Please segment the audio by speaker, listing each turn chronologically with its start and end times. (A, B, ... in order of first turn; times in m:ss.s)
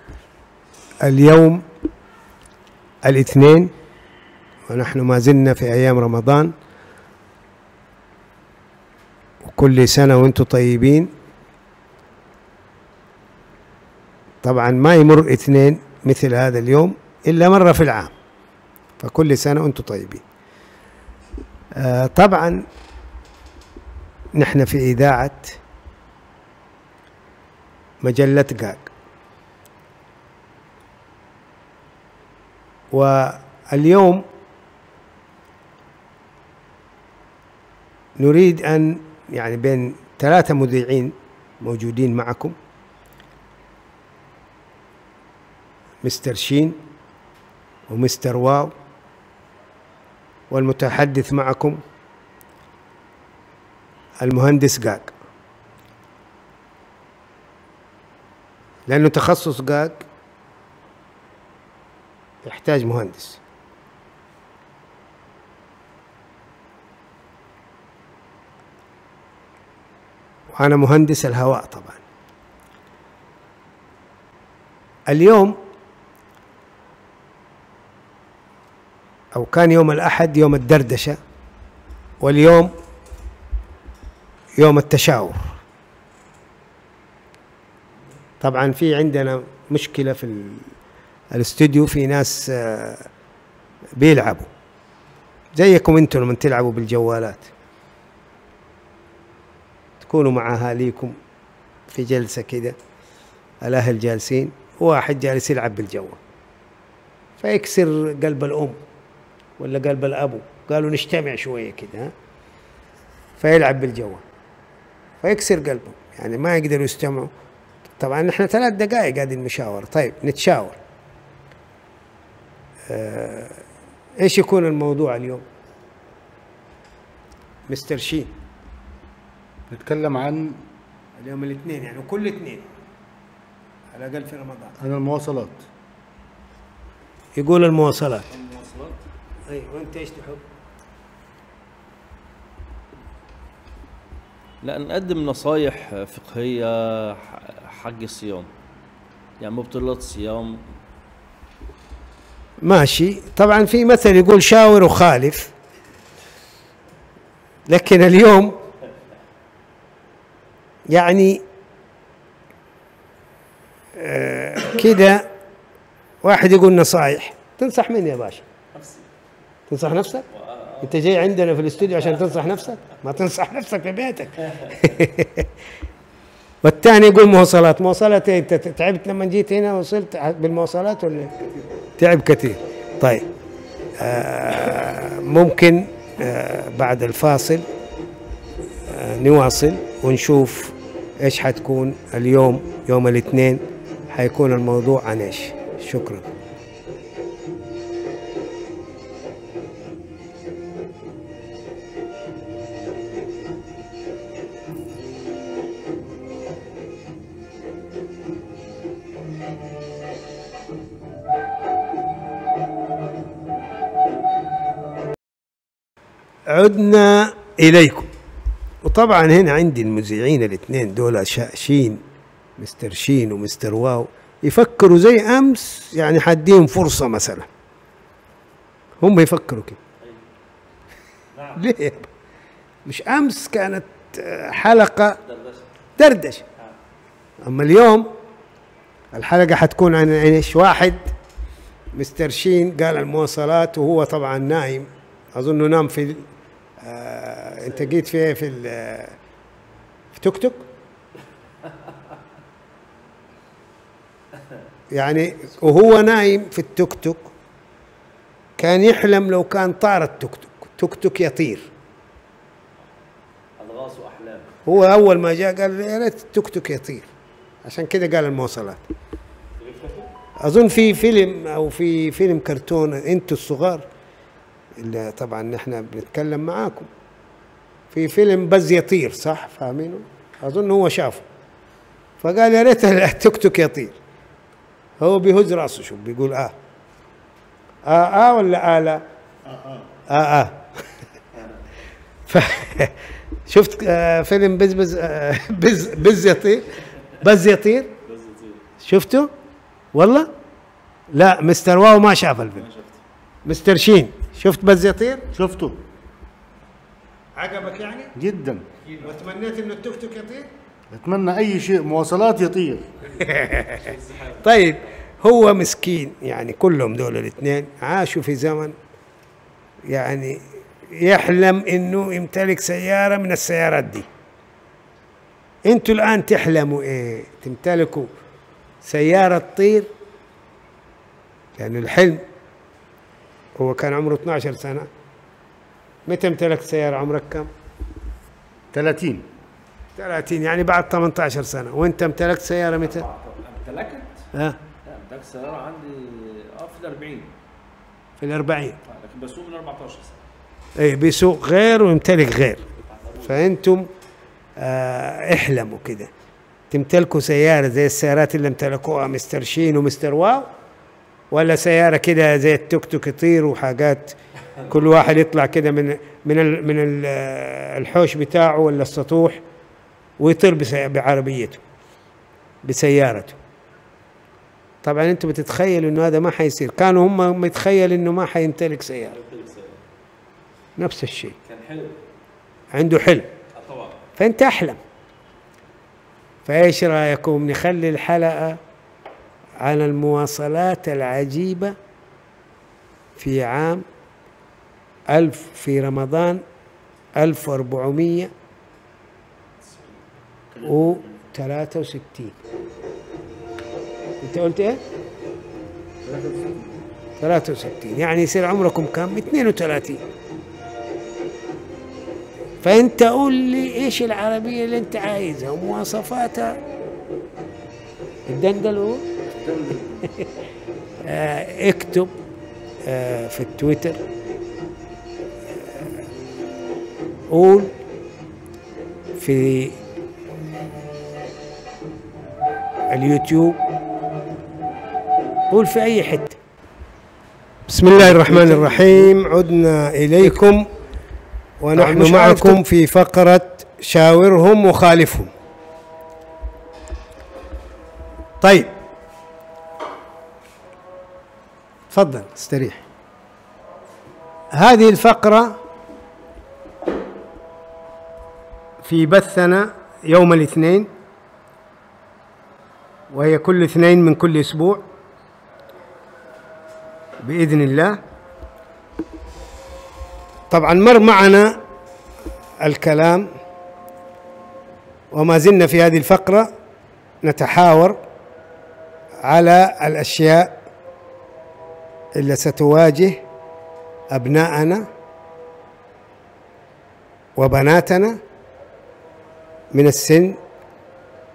0:01.0-0:01.6 A
0:03.0-0:03.7 A
0:04.7-0:06.5 A
0:09.4-0:11.1 A
0:14.4-0:18.1 A
0:19.0-0:20.2 A
0:21.8-0:22.6 A
0:24.3-0:25.6 A
0:28.0-0:28.9 A
0:32.9-0:34.2 A
0:38.2-0:42.6 A
0:46.0-0:46.8 A
0:47.9-0:48.7 A
0:50.5-0:51.8 A
0:54.2-0:55.1 A
0:58.9-1:00.0 A
1:02.4-1:03.4 A
1:10.5-1:12.0 A
1:15.1-1:15.6 A
1:19.3-1:21.2 A
1:22.2-1:22.7 A
1:24.6-1:25.6 A
1:28.4-1:30.7 A
1:31.3-1:33.1 A
1:34.0-1:34.5 A
1:35.5-1:37.5 A
1:40.0-1:41.1 A
1:41.9-1:42.8 A
1:43.6-1:46.2 A
1:47.4-1:48.8 A
1:49.6-1:52.1 A
1:53.4-1:54.2 A
1:55.2-1:57.3 A
1:58.0-2:00.8 A
2:02.9-2:03.6 A
2:04.2-2:05.4 A
2:07.7-2:08.3 A
2:09.7-2:10.6 B
2:11.2-2:12.6 A
2:13.9-2:14.8 A
2:14.8-2:15.6 B
2:17.4-2:18.3 A
2:18.3-2:19.0 C
2:19.5-2:20.4 A
2:24.6-2:28.5 C
2:29.4-2:30.6 C
2:32.6-2:35.5 A
2:37.7-2:38.6 A
2:40.9-2:41.4 A
2:44.0-2:45.2 A
2:46.2-2:48.4 A
2:48.7-2:49.0 C
2:49.7-2:50.2 A
2:50.4-2:50.8 C
2:50.8-2:55.5 A
2:56.6-3:01.4 A
3:02.0-3:03.2 A
3:04.0-3:07.6 A
3:08.9-3:16.2 A
3:36.5-3:38.1 A
3:38.8-3:42.0 A
3:42.6-3:47.5 A
3:49.0-3:49.8 A
3:51.5-3:52.1 A
3:52.8-3:55.2 A
3:55.3-3:55.6 C
3:56.0-3:56.4 A
3:57.4-3:58.1 A
3:59.1-4:01.0 A
4:01.9-4:06.2 A
4:06.8-4:09.1 A
4:10.1-4:10.6 A
4:14.9-4:17.3 A
4:18.6-4:21.7 A
4:23.6-4:24.5 C
4:24.6-4:27.1 A
4:27.6-4:28.8 A
4:29.6-4:30.1 C
4:30.4-4:33.8 A
4:34.8-4:36.9 A
4:37.9-4:41.2 A
4:42.2-4:44.0 A
4:45.0-4:46.5 A
4:47.8-4:49.0 A
4:49.5-4:49.8 B
4:50.1-4:50.6 A
4:52.3-4:53.0 A
4:53.5-4:57.9 A
4:58.1-4:58.6 C
4:58.8-4:59.3 A
4:59.9-5:00.3 A
5:01.1-5:02.7 A
5:02.7-5:03.0 C
5:03.4-5:05.2 A
5:05.3-5:05.8 B
5:07.4-5:08.1 A
5:08.2-5:08.6 B
5:09.0-5:10.5 A
5:10.9-5:12.9 B
5:13.2-5:18.7 A
5:13.6-5:14.4 C
5:19.8-5:24.1 A
5:25.7-5:28.1 A
5:28.8-5:29.9 A
5:31.6-5:32.2 A
5:33.6-5:34.9 A
5:36.0-5:37.5 A
5:38.7-5:39.2 B
5:40.0-5:43.1 A
5:42.9-5:44.2 C
5:44.3-5:44.6 A
5:44.8-5:47.3 C
5:48.2-5:48.8 A
5:48.8-5:50.2 C
5:50.8-5:52.6 A
5:52.9-5:53.3 C
5:53.2-5:53.9 A
5:54.6-5:56.1 A
5:56.7-6:00.5 A
6:01.3-6:09.4 A
6:10.2-6:11.6 A
6:12.6-6:13.4 A
6:14.8-6:19.2 A
6:19.1-6:19.8 C
6:20.8-6:21.4 A
6:21.4-6:22.0 C
6:22.7-6:23.3 A
6:23.6-6:24.0 C
6:24.2-6:24.8 A
6:26.4-6:28.6 A
6:29.6-6:31.7 A
6:33.2-6:33.8 A
6:35.1-6:36.4 A
6:37.2-6:38.3 A
6:40.5-6:40.9 B
6:40.6-6:42.4 A
6:44.2-6:44.8 A
6:46.0-6:46.7 B
6:47.2-6:50.0 A
6:52.6-6:56.6 A
6:58.3-6:59.0 A
6:59.3-7:00.1 B
7:01.0-7:02.1 A
7:02.8-7:04.0 A
7:05.6-7:05.9 A
7:07.3-7:07.7 A
7:09.2-7:09.8 A
7:12.9-7:13.6 A
7:15.5-7:16.4 A
7:17.7-7:20.7 A
7:21.6-7:25.3 A
7:28.4-7:28.7 A
7:31.9-7:32.8 A
7:34.5-7:35.6 A
7:38.8-7:40.9 A
7:43.1-7:44.8 A
7:47.2-7:48.0 A
7:50.5-7:51.6 A
7:52.6-7:53.3 A
7:55.1-7:56.5 A
7:57.2-7:58.0 A
7:59.2-8:00.6 A
8:02.2-8:03.2 A
8:04.1-8:04.8 A
8:07.4-8:08.2 A
8:09.7-8:10.4 A